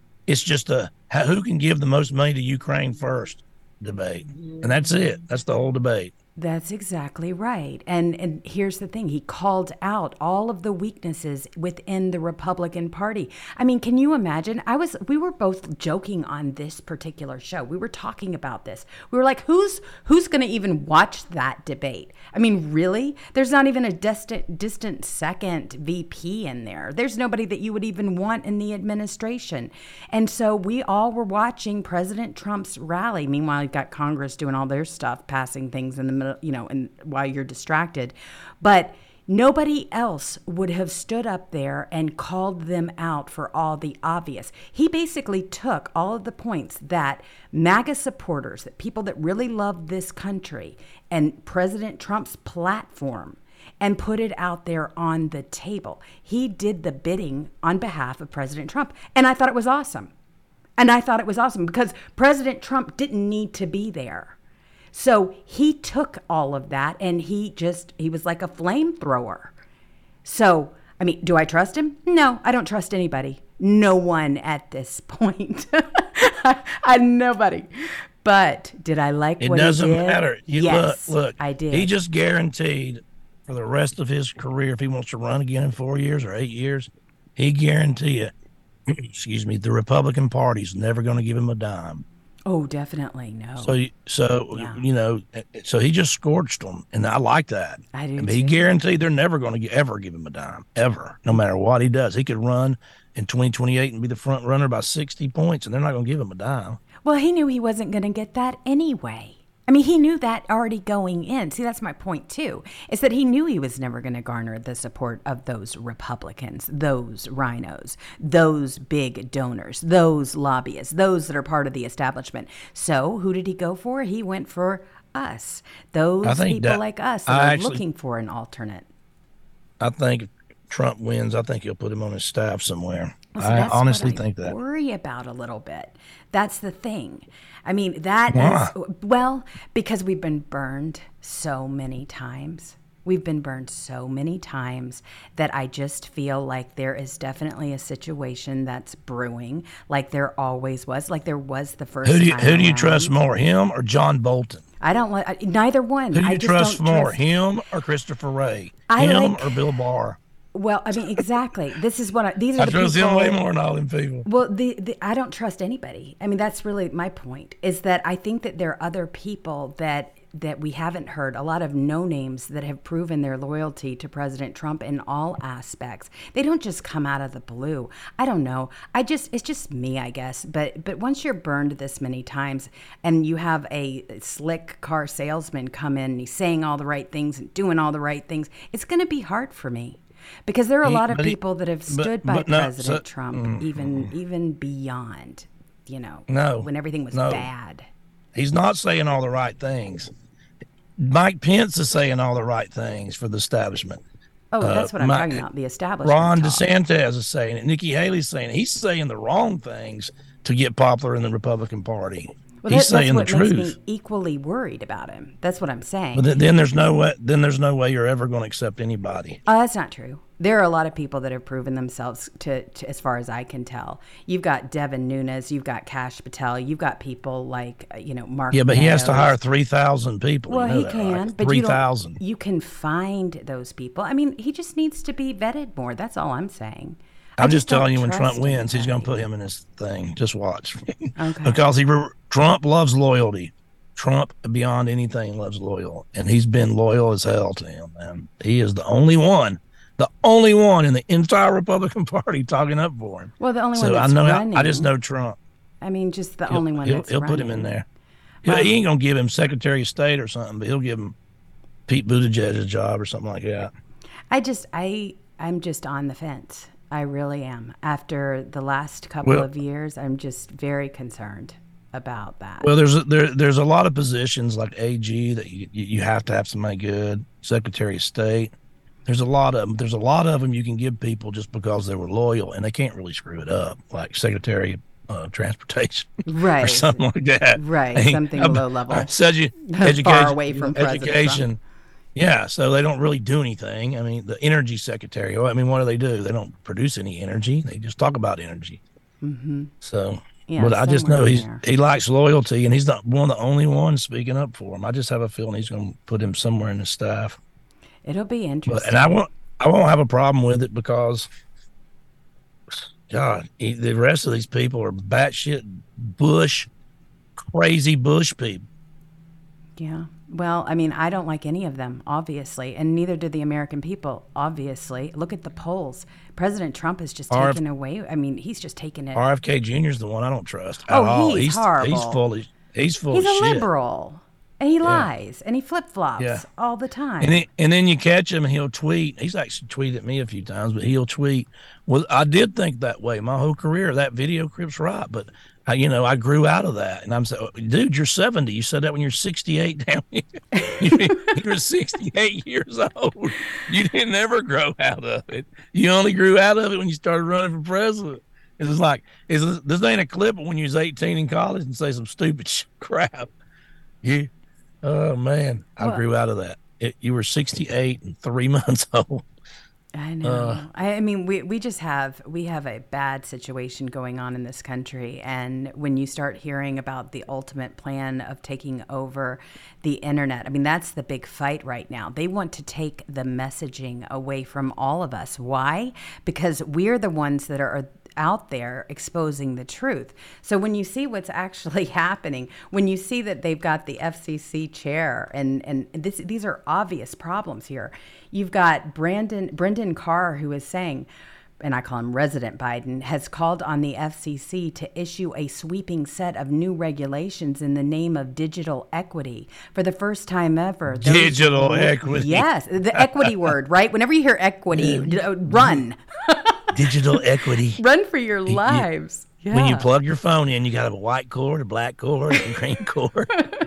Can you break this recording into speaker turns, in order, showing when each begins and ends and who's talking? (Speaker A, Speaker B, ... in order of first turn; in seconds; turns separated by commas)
Speaker A: 0.3-6.1, Speaker B: 6.4-60.1, Speaker B: 60.8-64.3, Speaker B: 64.9-69.5, Speaker B: 70.2-81.9, Speaker A: 79.4-88.3, Speaker A: 88.9-92.0, Speaker B: 92.5-93.8, Speaker A: 93.6-106.8, Speaker B: 94.5-94.8, Speaker B: 97.9-98.7, Speaker B: 107.0-128.9, Speaker A: 126.2-127.8, Speaker A: 129.8-134.5, Speaker B: 133.3-153.1, Speaker A: 138.3-138.7, Speaker A: 152.0-154.6, Speaker B: 154.8-157.2, Speaker A: 156.1-160.2, Speaker B: 158.9-159.6, Speaker B: 160.5-163.4, Speaker A: 162.6-164.2, Speaker B: 164.2-197.9, Speaker A: 190.8-194.1, Speaker A: 196.3-197.5, Speaker A: 198.3-200.1, Speaker A: 201.0-204.0, Speaker B: 204.5-206.7, Speaker A: 204.6-205.4, Speaker A: 206.0-213.7, Speaker B: 212.6-216.3, Speaker A: 216.1-219.4, Speaker B: 219.4-229.3, Speaker A: 228.5-232.2, Speaker B: 230.5-239.2, Speaker A: 237.4-255.4, Speaker B: 241.2-241.7, Speaker B: 253.4-254.9, Speaker B: 255.8-257.7, Speaker A: 256.5-257.9, Speaker B: 258.4-258.7, Speaker A: 258.4-261.1, Speaker A: 261.9-263.7, Speaker B: 264.3-272.7, Speaker A: 272.6-278.5, Speaker A: 279.1-291.6, Speaker B: 286.2-287.0, Speaker B: 287.5-289.1, Speaker B: 289.6-291.4, Speaker A: 292.1-298.8, Speaker B: 299.2-299.7, Speaker A: 299.8-307.4, Speaker B: 300.5-301.6, Speaker B: 308.0-309.2, Speaker A: 308.7-311.3, Speaker A: 313.1-316.7, Speaker A: 317.4-318.6, Speaker B: 319.8-329.3, Speaker A: 327.3-327.6, Speaker A: 329.1-333.6, Speaker B: 330.9-332.2, Speaker B: 333.1-337.4, Speaker A: 334.8-335.1, Speaker A: 336.2-336.4, Speaker A: 337.2-363.3, Speaker B: 350.5-351.2, Speaker A: 364.0-364.3, Speaker A: 364.8-369.2, Speaker B: 369.9-401.1, Speaker A: 370.2-370.6, Speaker B: 401.6-416.9, Speaker A: 411.0-412.4, Speaker A: 413.0-413.3, Speaker A: 414.7-415.8, Speaker A: 416.7-417.8, Speaker B: 417.8-419.9, Speaker A: 418.5-418.8, Speaker A: 419.5-423.4